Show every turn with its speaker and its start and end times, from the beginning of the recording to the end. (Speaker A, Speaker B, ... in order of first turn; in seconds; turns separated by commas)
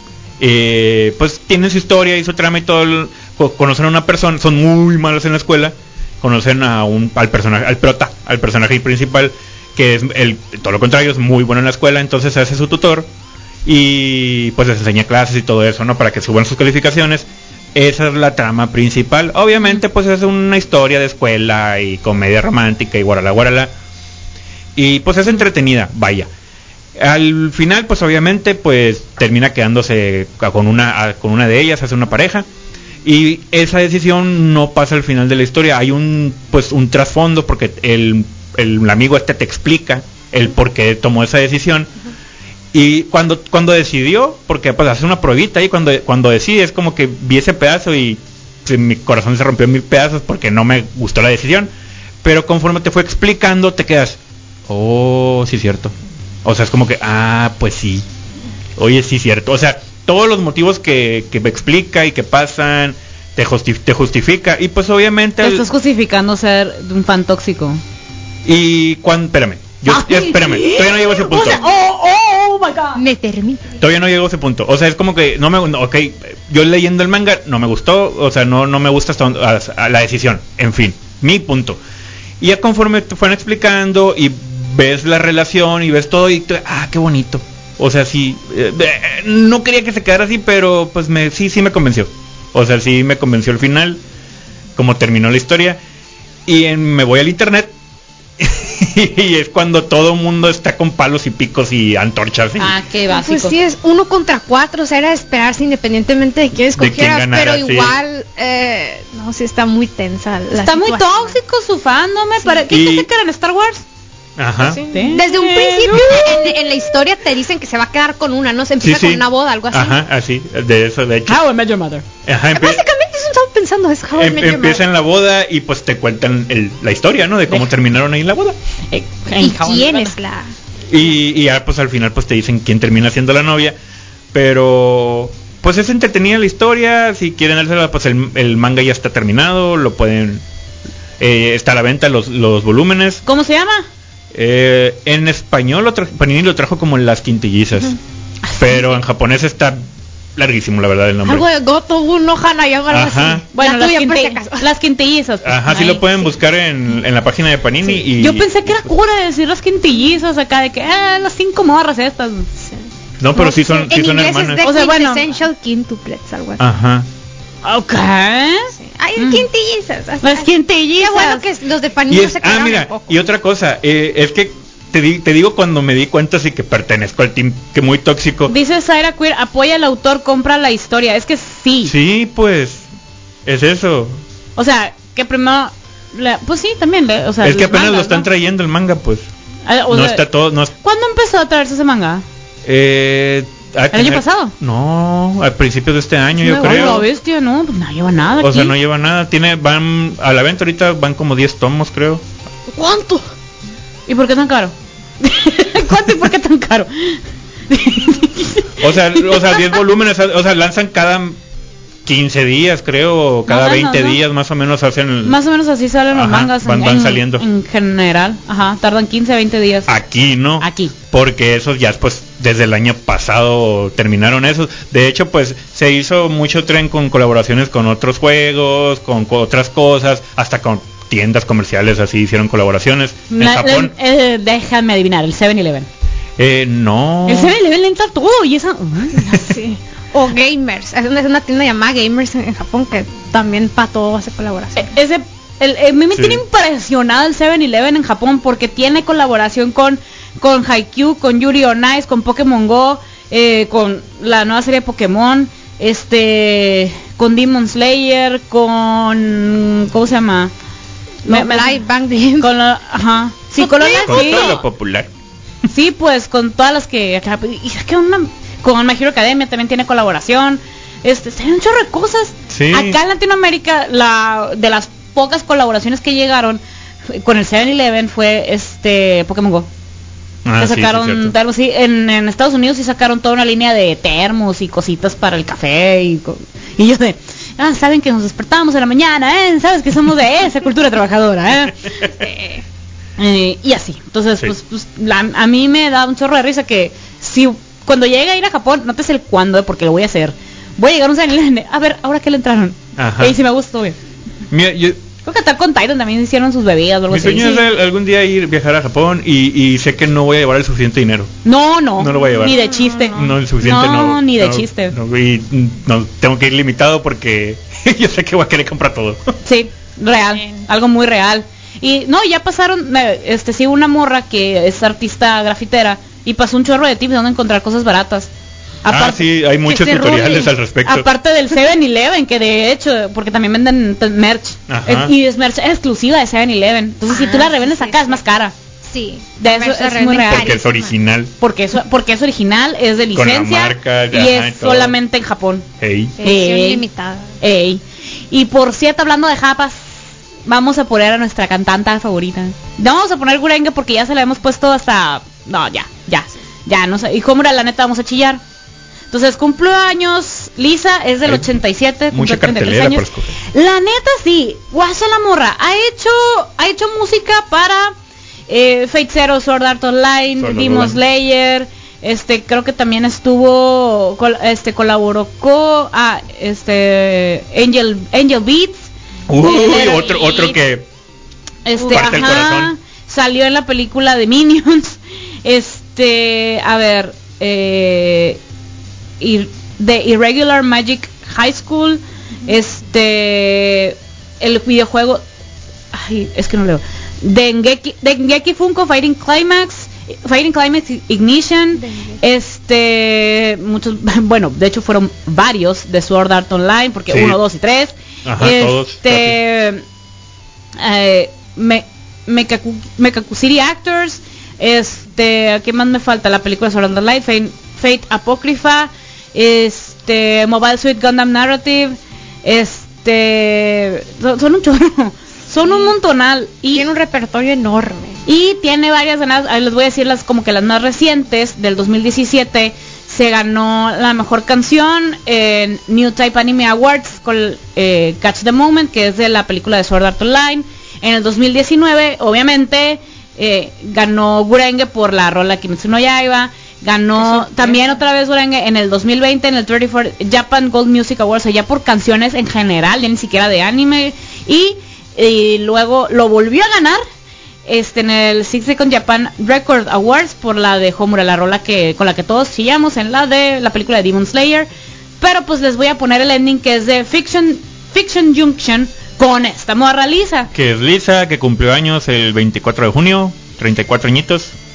Speaker A: 0.4-13.1, Speaker A: 13.7-23.7, Speaker A: 24.8-26.3, Speaker A: 27.0-32.5, Speaker A: 33.0-41.9, Speaker A: 42.7-51.7, Speaker A: 52.2-58.1, Speaker A: 58.8-65.7, Speaker B: 65.4-67.8, Speaker A: 68.5-71.7, Speaker B: 69.9-73.0, Speaker C: 73.0-73.8, Speaker A: 73.8-81.8, Speaker A: 82.4-94.0, Speaker A: 94.8-95.8, Speaker A: 96.5-97.7, Speaker A: 98.4-102.7, Speaker B: 102.6-103.6, Speaker C: 103.1-111.3, Speaker A: 106.8-108.0, Speaker B: 110.5-113.8, Speaker A: 112.7-113.1, Speaker A: 114.4-114.8, Speaker C: 114.6-120.0, Speaker B: 114.9-116.6, Speaker A: 118.8-121.4, Speaker B: 121.3-122.0, Speaker A: 122.3-122.8, Speaker C: 122.5-124.8, Speaker A: 124.2-128.6, Speaker B: 128.9-130.2, Speaker C: 129.4-130.5, Speaker A: 130.9-133.8, Speaker A: 134.3-140.4, Speaker A: 141.2-143.2, Speaker B: 143.3-143.9, Speaker A: 144.3-148.0, Speaker B: 148.5-148.9, Speaker A: 148.6-149.8, Speaker A: 150.4-151.5, Speaker C: 151.2-154.7, Speaker A: 152.9-153.4, Speaker B: 153.5-156.2, Speaker A: 155.4-158.7, Speaker B: 158.2-162.5, Speaker A: 163.2-164.7, Speaker C: 163.3-166.6, Speaker B: 164.6-165.3, Speaker A: 166.6-167.1, Speaker B: 167.6-169.5, Speaker C: 168.8-173.1, Speaker B: 170.2-171.4, Speaker A: 172.1-178.5, Speaker B: 178.5-181.9, Speaker A: 181.8-182.9, Speaker A: 183.4-184.2, Speaker B: 184.6-188.3, Speaker A: 187.4-189.3, Speaker B: 189.7-190.3, Speaker A: 189.9-190.7, Speaker B: 190.8-192.2, Speaker A: 192.7-197.1, Speaker B: 193.9-194.5, Speaker B: 196.4-198.8, Speaker A: 198.4-202.2, Speaker C: 202.7-203.2, Speaker B: 204.1-209.7, Speaker A: 208.8-211.4, Speaker A: 212.1-215.4, Speaker B: 213.5-214.2, Speaker B: 215.2-219.9, Speaker A: 216.1-217.4, Speaker A: 219.9-233.9, Speaker B: 220.6-220.9, Speaker B: 233.3-235.9, Speaker A: 236.4-237.6, Speaker B: 237.3-239.6, Speaker C: 239.3-244.9, Speaker B: 244.8-260.5, Speaker A: 246.1-246.4, Speaker B: 261.2-261.8, Speaker C: 261.3-262.5, Speaker B: 262.4-264.6, Speaker C: 263.6-264.6, Speaker A: 264.0-265.1, Speaker B: 265.7-279.7, Speaker A: 272.5-273.0, Speaker A: 280.4-281.3, Speaker B: 280.6-292.3, Speaker B: 293.2-304.0, Speaker A: 303.0-303.4, Speaker A: 304.5-305.0, Speaker B: 305.2-307.7, Speaker A: 307.1-311.3, Speaker B: 311.4-314.9, Speaker A: 312.0-319.4, Speaker C: 312.8-313.3, Speaker B: 319.4-328.3, Speaker B: 328.8-338.5, Speaker A: 328.9-331.1, Speaker A: 334.7-335.1, Speaker C: 337.1-338.2, Speaker C: 338.9-340.9, Speaker B: 339.4-340.6, Speaker A: 340.3-341.3, Speaker B: 341.4-345.7, Speaker A: 343.1-345.0, Speaker A: 345.8-346.1, Speaker C: 346.2-347.3, Speaker B: 346.2-346.8, Speaker B: 347.4-358.4, Speaker B: 359.1-367.9, Speaker A: 362.1-363.3, Speaker B: 368.5-378.9, Speaker A: 370.4-371.0, Speaker A: 379.3-380.9, Speaker B: 379.4-380.6, Speaker B: 381.6-388.4, Speaker A: 381.9-382.7, Speaker B: 389.2-395.2, Speaker B: 395.9-409.8, Speaker A: 407.1-407.4, Speaker A: 408.2-409.4, Speaker B: 410.8-426.8, Speaker C: 426.7-428.2, Speaker B: 428.3-457.0, Speaker C: 447.2-447.9, Speaker B: 457.7-464.7, Speaker B: 465.2-470.5, Speaker A: 470.5-474.5